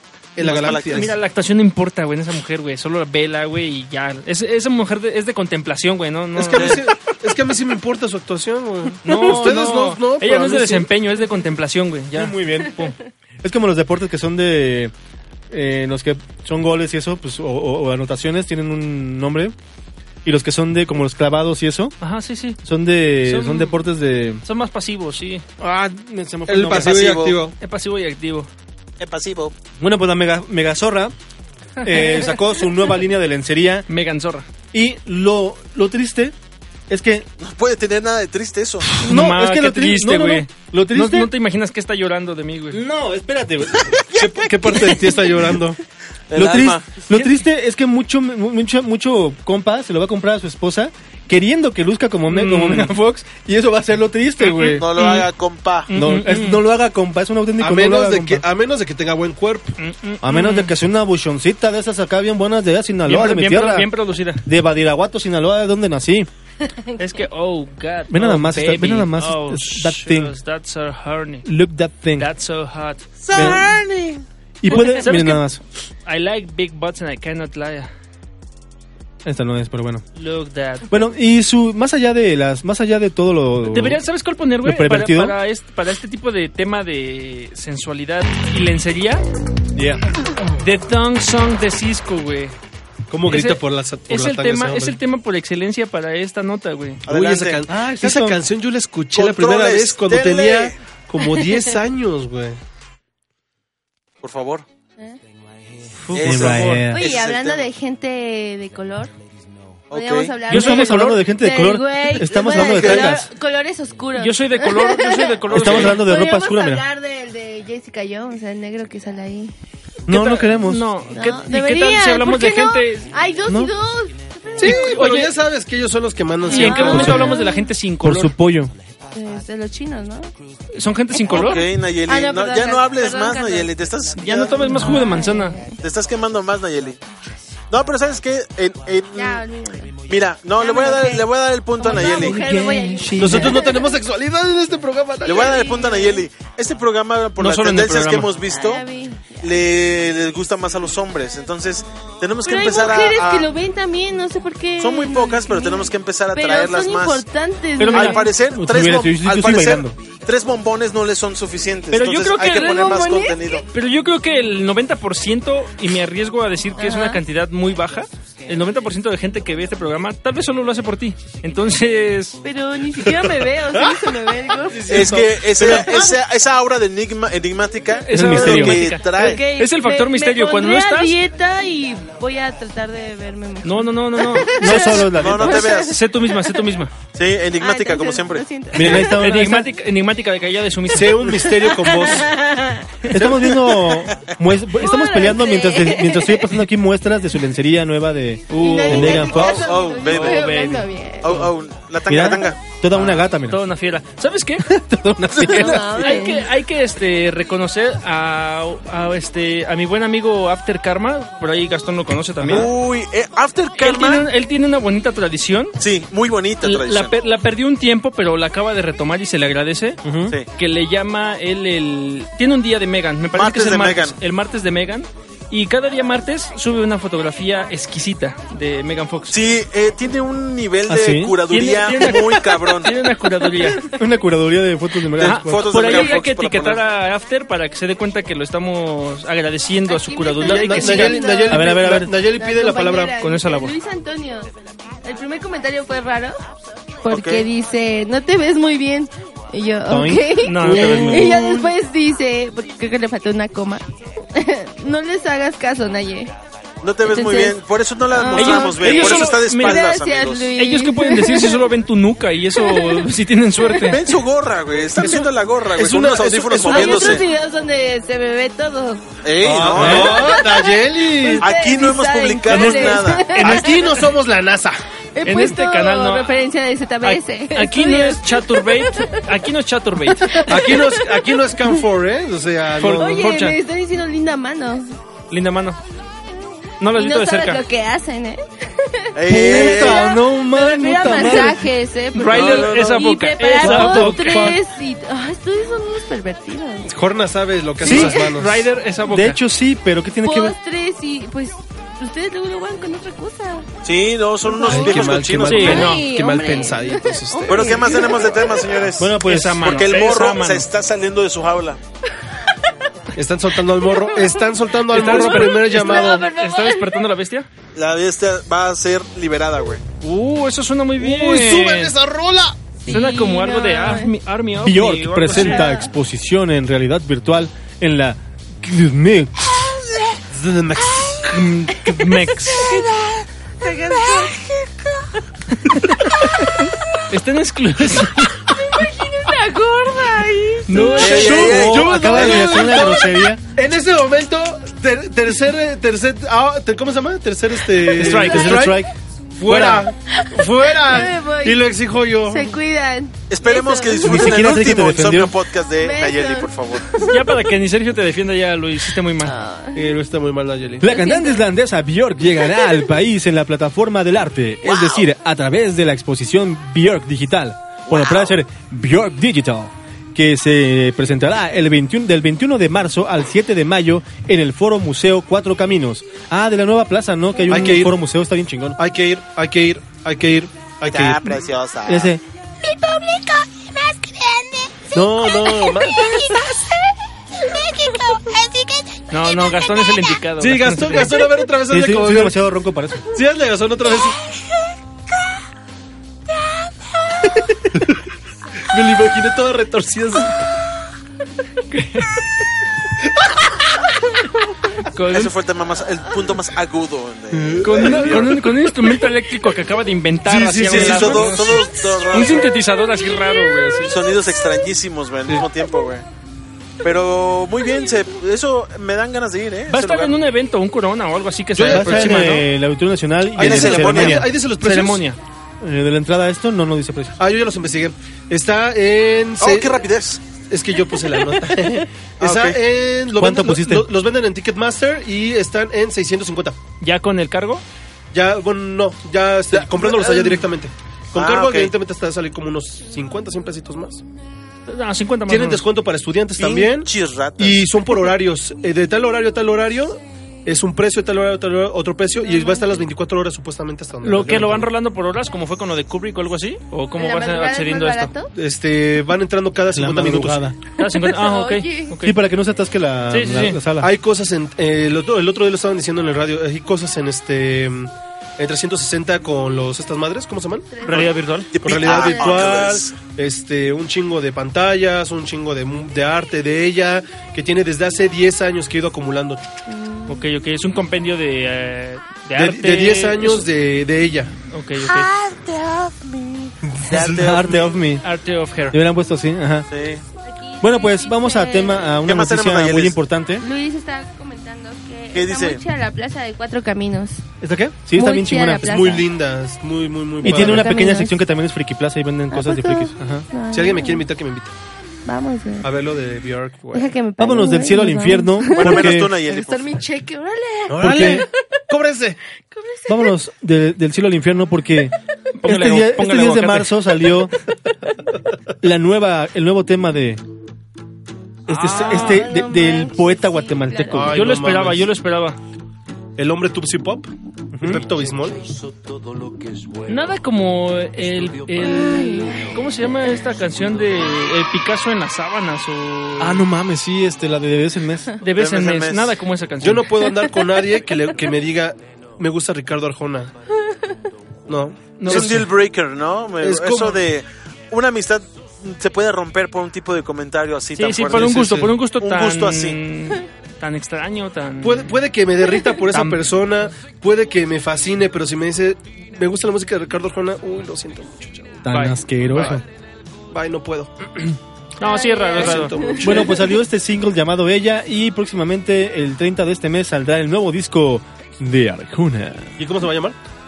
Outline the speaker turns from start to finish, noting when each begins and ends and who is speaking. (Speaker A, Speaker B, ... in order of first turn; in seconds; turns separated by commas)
Speaker A: 0.4-1.1, Speaker B: 0.4-1.1, Speaker C: 0.5-6.8, Speaker A: 6.4-10.9, Speaker B: 6.5-6.8, Speaker C: 9.0-12.9, Speaker D: 12.1-12.9, Speaker D: 13.4-14.9, Speaker D: 15.5-19.6, Speaker D: 20.2-21.9, Speaker C: 22.0-22.6, Speaker D: 22.6-24.4, Speaker C: 23.2-23.8, Speaker C: 24.4-25.4, Speaker D: 25.6-27.0, Speaker A: 26.5-27.5, Speaker B: 26.6-27.4, Speaker C: 27.6-28.5, Speaker B: 29.0-29.6, Speaker D: 29.8-31.1, Speaker C: 31.8-32.2, Speaker D: 31.8-33.9, Speaker C: 33.9-34.5, Speaker D: 34.7-36.4, Speaker D: 36.9-37.3, Speaker B: 37.4-38.9, Speaker D: 38.9-41.3, Speaker C: 39.0-42.8, Speaker D: 42.7-44.9, Speaker A: 44.1-45.8, Speaker B: 46.3-46.9, Speaker D: 46.3-54.9, Speaker C: 52.3-53.0, Speaker C: 54.4-55.3, Speaker B: 54.7-55.9, Speaker C: 55.9-56.6, Speaker D: 55.9-58.5, Speaker A: 57.6-59.8, Speaker C: 59.8-60.7, Speaker D: 60.2-63.9, Speaker C: 63.1-64.5, Speaker D: 64.4-66.3, Speaker C: 67.0-71.5, Speaker D: 68.1-70.3, Speaker D: 71.5-72.3, Speaker C: 72.2-73.6, Speaker D: 73.3-73.7, Speaker B: 73.4-74.2, Speaker D: 74.6-75.6, Speaker C: 74.7-75.5, Speaker C: 76.0-77.9, Speaker D: 79.2-80.0, Speaker C: 80.2-81.0, Speaker D: 80.9-84.0, Speaker C: 83.7-89.2, Speaker D: 84.6-85.3, Speaker D: 89.8-90.0, Speaker C: 90.6-92.6, Speaker A: 93.1-95.0, Speaker C: 93.3-97.1, Speaker B: 97.1-97.6, Speaker A: 97.1-102.6, Speaker D: 97.7-98.4, Speaker B: 99.1-100.8, Speaker B: 104.2-104.7, Speaker C: 106.0-106.8, Speaker B: 106.1-107.7, Speaker D: 106.2-107.1, Speaker E: 106.9-109.1, Speaker B: 109.9-110.3, Speaker E: 109.9-119.5, Speaker C: 110.5-111.2, Speaker D: 110.5-113.3, Speaker B: 112.7-113.0, Speaker C: 114.2-116.0, Speaker D: 115.5-116.8, Speaker D: 120.1-120.9, Speaker C: 120.1-123.1, Speaker E: 121.1-125.2, Speaker D: 123.5-123.7, Speaker A: 124.6-127.2, Speaker C: 124.6-125.3, Speaker C: 126.5-128.3, Speaker E: 126.5-127.7, Speaker D: 126.6-127.4, Speaker D: 128.0-128.7, Speaker E: 129.1-130.3, Speaker C: 130.7-131.6, Speaker E: 131.1-133.8, Speaker B: 131.3-134.7, Speaker C: 134.2-135.6, Speaker E: 134.5-135.8, Speaker B: 135.8-137.0, Speaker B: 137.7-139.4, Speaker E: 139.1-140.0, Speaker B: 140.0-142.4, Speaker E: 140.6-141.3, Speaker E: 141.8-144.0, Speaker D: 142.2-143.6, Speaker A: 143.2-145.6, Speaker B: 145.2-148.8, Speaker E: 145.4-146.2, Speaker C: 147.4-148.3, Speaker E: 148.5-149.5, Speaker B: 149.4-153.5, Speaker E: 152.4-158.3, Speaker B: 154.8-157.2, Speaker C: 157.8-158.3, Speaker B: 157.9-163.7, Speaker D: 158.5-160.0, Speaker C: 161.9-162.8, Speaker E: 162.4-163.7, Speaker C: 163.7-172.4, Speaker E: 166.8-167.2, Speaker E: 172.4-176.1, Speaker A: 173.7-174.1, Speaker A: 174.6-176.1, Speaker B: 174.9-179.4, Speaker C: 178.0-181.2, Speaker D: 178.1-178.8, Speaker E: 179.0-186.4, Speaker C: 183.6-186.9, Speaker D: 184.4-185.6, Speaker B: 185.1-186.0, Speaker B: 187.2-188.4, Speaker E: 187.6-189.2, Speaker D: 188.8-189.7, Speaker C: 188.8-191.5, Speaker A: 190.9-192.3, Speaker E: 191.5-192.9, Speaker D: 193.1-199.4, Speaker E: 194.8-196.5, Speaker C: 198.5-201.5, Speaker E: 198.5-201.5, Speaker B: 198.9-200.5, Speaker B: 201.2-202.6, Speaker D: 202.1-203.6, Speaker C: 202.9-204.7, Speaker D: 204.6-206.2, Speaker C: 205.4-212.7, Speaker E: 205.5-206.5, Speaker B: 212.5-214.3, Speaker C: 213.8-215.7, Speaker B: 215.8-217.2, Speaker C: 216.6-220.0, Speaker D: 220.0-220.3, Speaker C: 220.6-229.6, Speaker B: 223.3-224.2, Speaker B: 229.3-233.0, Speaker D: 230.9-231.4, Speaker C: 231.5-233.8, Speaker D: 233.9-235.9, Speaker B: 235.2-236.8, Speaker C: 235.2-241.2, Speaker E: 239.9-244.5, Speaker A: 240.4-243.1, Speaker D: 241.5-242.1, Speaker C: 243.2-243.8, Speaker E: 245.0-246.4, Speaker E: 247.0-256.3, Speaker B: 247.1-247.5, Speaker D: 249.9-251.6, Speaker C: 250.4-251.6, Speaker B: 256.8-260.5, Speaker E: 257.1-261.7, Speaker C: 258.4-259.8, Speaker C: 260.6-264.0, Speaker E: 262.6-263.1, Speaker B: 263.9-267.2, Speaker A: 265.0-267.2, Speaker E: 266.6-269.0, Speaker B: 269.2-270.5, Speaker A: 269.4-271.5, Speaker D: 269.7-270.1, Speaker E: 270.0-274.0, Speaker B: 271.4-273.8, Speaker A: 272.6-274.8, Speaker E: 275.1-279.2, Speaker C: 275.2-276.3, Speaker C: 277.0-280.5, Speaker E: 280.2-281.3, Speaker A: 280.4-283.3, Speaker C: 282.8-283.6, Speaker E: 283.0-285.0, Speaker C: 285.3-285.8, Speaker C: 286.8-287.6, Speaker E: 286.9-296.9, Speaker B: 289.1-290.0, Speaker D: 289.3-291.7, Speaker C: 292.1-294.6, Speaker D: 293.6-294.6, Speaker A: 296.9-298.7, Speaker D: 297.8-298.1, Speaker C: 297.8-299.4, Speaker E: 297.8-298.3, Speaker D: 299.1-300.6, Speaker E: 300.2-303.7, Speaker B: 303.8-305.8, Speaker E: 304.4-308.8, Speaker A: 304.7-307.9, Speaker C: 305.5-306.1, Speaker B: 307.5-311.8, Speaker D: 309.0-309.8, Speaker C: 309.2-310.7, Speaker A: 313.1-316.3, Speaker E: 313.7-314.5, Speaker C: 314.9-317.5, Speaker E: 315.1-317.0, Speaker B: 317.8-319.8, Speaker C: 320.0-321.9, Speaker A: 321.0-322.6, Speaker E: 322.8-324.1, Speaker C: 322.9-325.6, Speaker D: 324.6-329.6, Speaker E: 325.3-325.9, Speaker A: 330.3-331.5, Speaker C: 331.3-332.8, Speaker E: 332.5-335.2, Speaker C: 335.5-338.9, Speaker E: 338.5-341.5, Speaker C: 340.7-342.3, Speaker B: 340.9-342.7, Speaker D: 341.0-343.4, Speaker E: 342.1-343.3, Speaker A: 342.4-343.0, Speaker A: 343.6-352.6, Speaker C: 347.9-348.7, Speaker D: 348.0-348.9, Speaker D: 349.4-349.9, Speaker E: 350.1-354.6, Speaker B: 353.3-356.9, Speaker D: 354.0-355.4, Speaker E: 355.8-357.3, Speaker C: 357.1-359.4, Speaker E: 359.2-359.8, Speaker A: 359.8-360.9, Speaker D: 360.8-378.8, Speaker E: 360.8-361.5, Speaker E: 362.4-362.9, Speaker E: 364.6-365.0, Speaker B: 367.9-368.4, Speaker A: 377.5-377.9, Speaker A: 378.8-381.5, Speaker B: 380.8-382.1, Speaker D: 381.9-382.2, Speaker F: 382.6-384.8, Speaker A: 384.9-386.1, Speaker E: 385.4-386.5, Speaker F: 386.0-386.5, Speaker F: 387.5-390.2, Speaker C: 389.1-391.1, Speaker A: 390.4-392.4, Speaker D: 391.7-393.1, Speaker A: 393.1-394.2, Speaker A: 398.7-400.4, Speaker C: 401.7-402.2, Speaker C: 404.9-405.3, Speaker B: 405.1-408.5, Speaker A: 407.3-408.3, Speaker C: 407.6-413.9, Speaker A: 410.3-411.7, Speaker B: 410.6-412.5, Speaker E: 412.9-413.9, Speaker B: 413.9-416.1, Speaker B: 416.8-420.2, Speaker C: 419.7-422.5, Speaker A: 421.6-422.4, Speaker D: 421.6-424.3, Speaker A: 423.4-425.1, Speaker B: 423.4-424.2, Speaker C: 424.6-425.2, Speaker D: 425.6-427.2, Speaker A: 427.2-429.8, Speaker B: 429.4-430.2, Speaker A: 430.4-436.6, Speaker B: 432.2-432.6, Speaker D: 433.1-433.9, Speaker C: 436.8-437.6, Speaker A: 438.1-444.0, Speaker B: 439.5-440.4, Speaker B: 441.1-441.7, Speaker C: 444.7-445.7, Speaker A: 445.3-454.7, Speaker B: 446.4-447.7, Speaker E: 452.2-452.8, Speaker C: 454.0-458.1, Speaker E: 457.0-458.3, Speaker A: 458.4-460.4, Speaker D: 459.7-460.6, Speaker C: 460.8-462.2, Speaker E: 460.8-461.9, Speaker D: 462.0-463.9, Speaker C: 463.1-463.6, Speaker A: 463.8-471.1, Speaker E: 470.7-472.6, Speaker C: 470.9-471.5, Speaker B: 471.6-473.0, Speaker A: 471.6-479.4, Speaker E: 479.7-480.2, Speaker C: 480.1-483.5, Speaker A: 482.4-484.3, Speaker C: 484.5-485.1, Speaker B: 485.3-485.7, Speaker E: 486.1-486.5, Speaker A: 486.7-487.2, Speaker B: 486.9-487.6, Speaker D: 487.0-488.0, Speaker C: 488.0-488.8, Speaker D: 488.7-489.7, Speaker B: 489.7-490.0, Speaker E: 490.2-492.0, Speaker D: 490.6-493.4, Speaker B: 492.1-493.0, Speaker E: 493.4-497.2, Speaker B: 495.1-495.6, Speaker D: 497.4-499.0, Speaker E: 498.0-499.0, Speaker A: 498.6-500.8, Speaker E: 500.2-501.2, Speaker D: 500.2-503.3, Speaker E: 502.3-504.1, Speaker A: 503.5-504.5, Speaker E: 505.1-505.7, Speaker A: 505.6-506.9, Speaker E: 506.7-511.3, Speaker D: 507.2-509.2, Speaker B: 508.5-509.7, Speaker A: 510.7-512.2, Speaker D: 510.8-511.3, Speaker E: 512.5-513.1, Speaker D: 512.9-514.9, Speaker C: 515.4-516.8, Speaker D: 515.5-517.3, Speaker D: 518.6-520.2, Speaker C: 521.5-522.2, Speaker D: 521.5-524.4, Speaker E: 521.7-524.0, Speaker A: 523.9-524.9, Speaker C: 524.1-525.4, Speaker A: 526.2-528.4, Speaker D: 527.5-527.9, Speaker C: 529.9-536.4, Speaker E: 531.6-532.5, Speaker D: 536.2-538.1, Speaker C: 538.2-539.9, Speaker B: 538.3-539.1, Speaker A: 539.6-543.3, Speaker E: 540.0-540.7, Speaker E: 543.7-544.0, Speaker A: 544.5-545.5, Speaker C: 545.0-545.5, Speaker B: 545.1-552.8, Speaker A: 546.4-547.0, Speaker C: 550.8-554.9, Speaker A: 554.6-561.6, Speaker C: 555.9-556.2, Speaker D: 561.6-562.6, Speaker C: 561.7-562.5, Speaker A: 562.3-562.6, Speaker A: 563.3-563.9, Speaker C: 564.8-565.7, Speaker E: 564.8-566.5, Speaker A: 565.4-566.3, Speaker D: 566.0-572.6, Speaker A: 572.6-573.2